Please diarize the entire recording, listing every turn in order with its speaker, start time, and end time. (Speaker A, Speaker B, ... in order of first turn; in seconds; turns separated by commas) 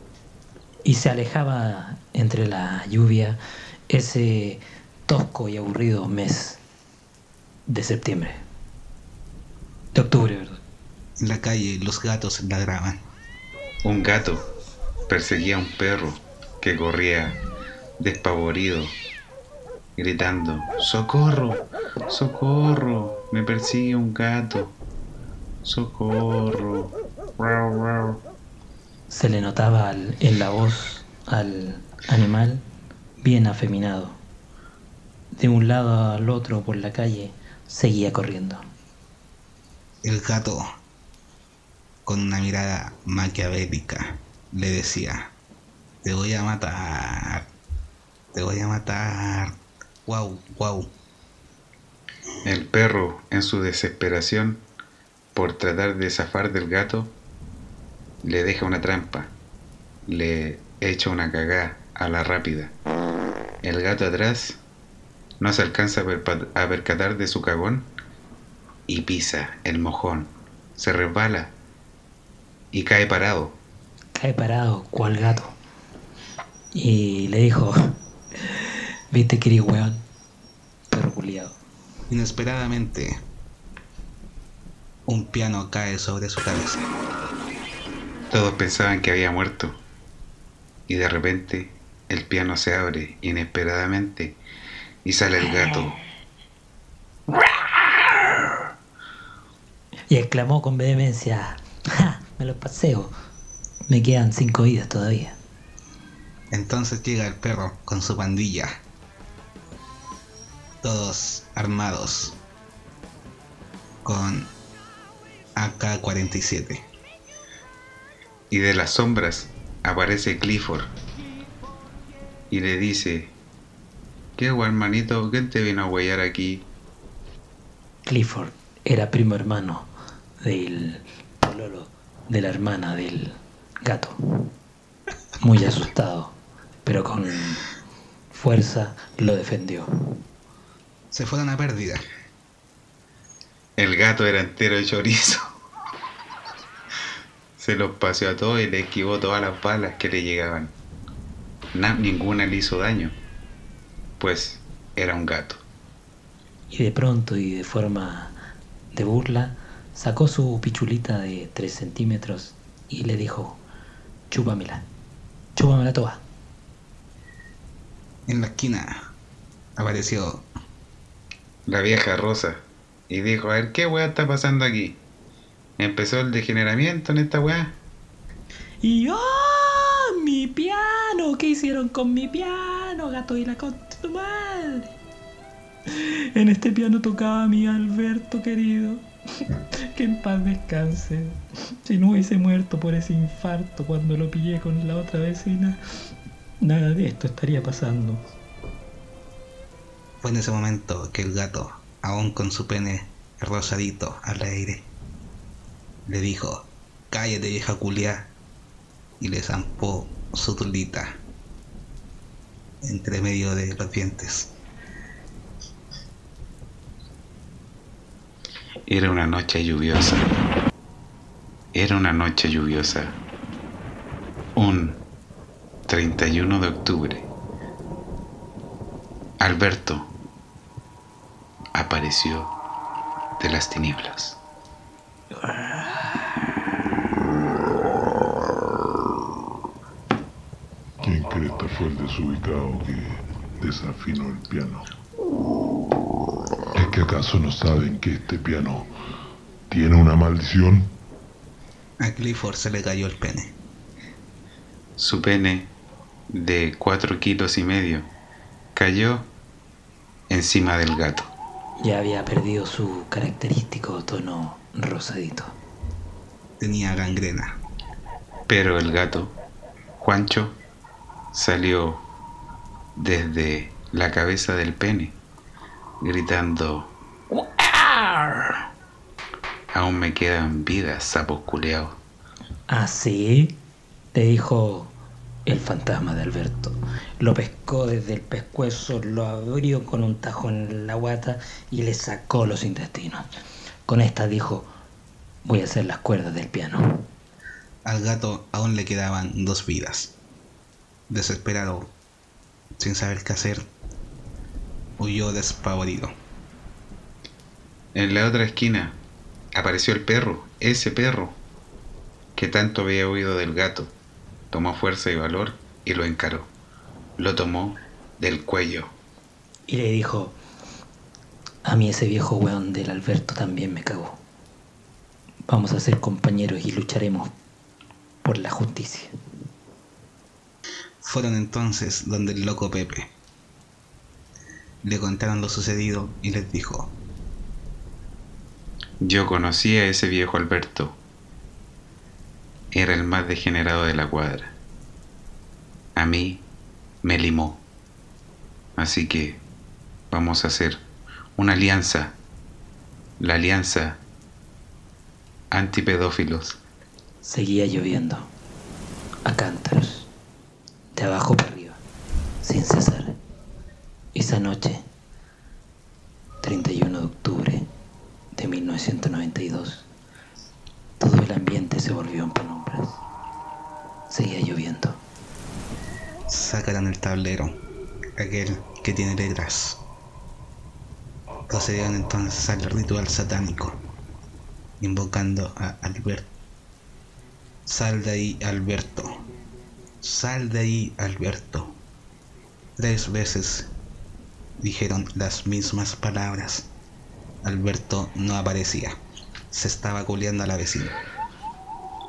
Speaker A: 0.8-3.4, Speaker A: 3.9-6.6, Speaker A: 7.7-8.4, Speaker A: 9.9-10.6, Speaker B: 11.2-13.0, Speaker C: 13.8-14.4, Speaker C: 15.1-17.4, Speaker C: 18.0-18.9, Speaker C: 20.0-24.8, Speaker C: 25.6-28.2, Speaker A: 29.1-32.6, Speaker A: 33.2-34.2, Speaker A: 35.3-38.6, Speaker B: 40.0-40.6, Speaker B: 42.0-45.3, Speaker B: 46.0-47.5, Speaker B: 48.3-49.5, Speaker B: 50.0-50.9, Speaker C: 52.4-54.6, Speaker C: 55.3-57.1, Speaker C: 58.2-59.3, Speaker C: 60.1-62.7, Speaker C: 63.6-64.6, Speaker C: 65.4-67.9, Speaker C: 68.9-71.5, Speaker C: 72.7-73.5, Speaker A: 74.1-75.6, Speaker A: 76.7-77.8, Speaker A: 79.1-80.0, Speaker A: 80.9-81.6, Speaker B: 82.1-83.1, Speaker B: 85.1-86.8, Speaker C: 88.3-89.8, Speaker C: 90.9-94.4, Speaker C: 95.0-96.0, Speaker A: 100.1-103.1, Speaker A: 103.9-105.4, Speaker B: 106.5-108.7, Speaker B: 110.8-112.4, Speaker B: 114.0-114.5, Speaker B: 115.6-116.8, Speaker C: 118.5-120.9, Speaker C: 122.5-123.3, Speaker C: 124.4-126.6, Speaker A: 128.0-129.9, Speaker A: 130.4-134.5, Speaker A: 135.4-137.6, Speaker A: 138.3-139.9, Speaker B: 141.1-142.0, Speaker C: 143.8-145.5, Speaker C: 147.6-150.7, Speaker C: 151.7-153.1, Speaker C: 154.2-155.6, Speaker A: 156.7-158.3, Speaker A: 158.9-163.6, Speaker A: 164.3-164.8, Speaker A: 165.6-166.2, Speaker B: 168.3-169.0, Speaker B: 169.8-170.4, Speaker C: 171.7-175.0, Speaker C: 175.8-177.8, Speaker A: 178.8-184.9, Speaker A: 185.9-189.1, Speaker A: 189.9-195.8, Speaker A: 196.6-198.2, Speaker B: 200.2-204.8, Speaker B: 206.1-208.3, Speaker B: 209.2-211.1, Speaker B: 212.8-214.5, Speaker C: 218.9-220.3, Speaker C: 221.7-223.2, Speaker C: 224.6-225.0, Speaker C: 225.9-227.3, Speaker C: 229.4-230.1, Speaker C: 231.7-232.5, Speaker C: 233.4-234.4, Speaker A: 235.4-236.2, Speaker D: 241.0-244.9, Speaker D: 246.7-248.9, Speaker D: 249.7-250.9, Speaker B: 252.0-253.5, Speaker C: 255.0-255.7, Speaker C: 256.3-258.1, Speaker C: 258.7-259.3, Speaker C: 260.3-261.3, Speaker A: 261.8-265.6, Speaker B: 266.6-267.5, Speaker C: 268.5-269.3, Speaker C: 270.0-270.6, Speaker C: 271.3-272.0, Speaker C: 272.9-275.1, Speaker C: 276.0-276.9, Speaker A: 277.3-278.5, Speaker C: 279.7-282.0, Speaker A: 282.7-283.5, Speaker A: 284.1-284.9, Speaker A: 285.4-293.3, Speaker A: 293.9-294.7, Speaker A: 295.4-297.1, Speaker B: 297.9-300.1, Speaker B: 301.1-301.9, Speaker B: 302.8-303.6, Speaker B: 305.0-306.1, Speaker C: 307.9-308.9, Speaker C: 309.5-311.4, Speaker C: 312.4-313.9, Speaker C: 314.5-316.5, Speaker C: 317.2-318.9, Speaker A: 319.7-320.4, Speaker A: 321.6-324.2, Speaker A: 325.5-327.3, Speaker A: 328.2-329.1, Speaker B: 331.0-333.1, Speaker B: 334.8-336.9, Speaker C: 339.0-341.0, Speaker C: 342.7-344.5, Speaker C: 345.9-346.4, Speaker C: 347.0-347.6, Speaker C: 348.8-349.4, Speaker C: 350.1-350.8, Speaker C: 351.4-352.1, Speaker C: 353.2-354.0, Speaker C: 355.5-356.6, Speaker A: 357.2-358.3, Speaker A: 359.2-360.1, Speaker A: 360.9-361.8, Speaker A: 362.4-363.1, Speaker A: 364.1-364.8, Speaker A: 366.4-367.7, Speaker A: 368.3-369.9, Speaker A: 371.0-373.0, Speaker A: 374.1-375.0, Speaker B: 376.3-377.5, Speaker B: 378.2-379.8, Speaker B: 381.5-383.8, Speaker B: 384.8-386.3, Speaker B: 387.6-389.1, Speaker B: 390.0-391.8, Speaker B: 392.8-393.7, Speaker B: 394.6-396.6, Speaker B: 397.4-398.9, Speaker B: 399.5-400.9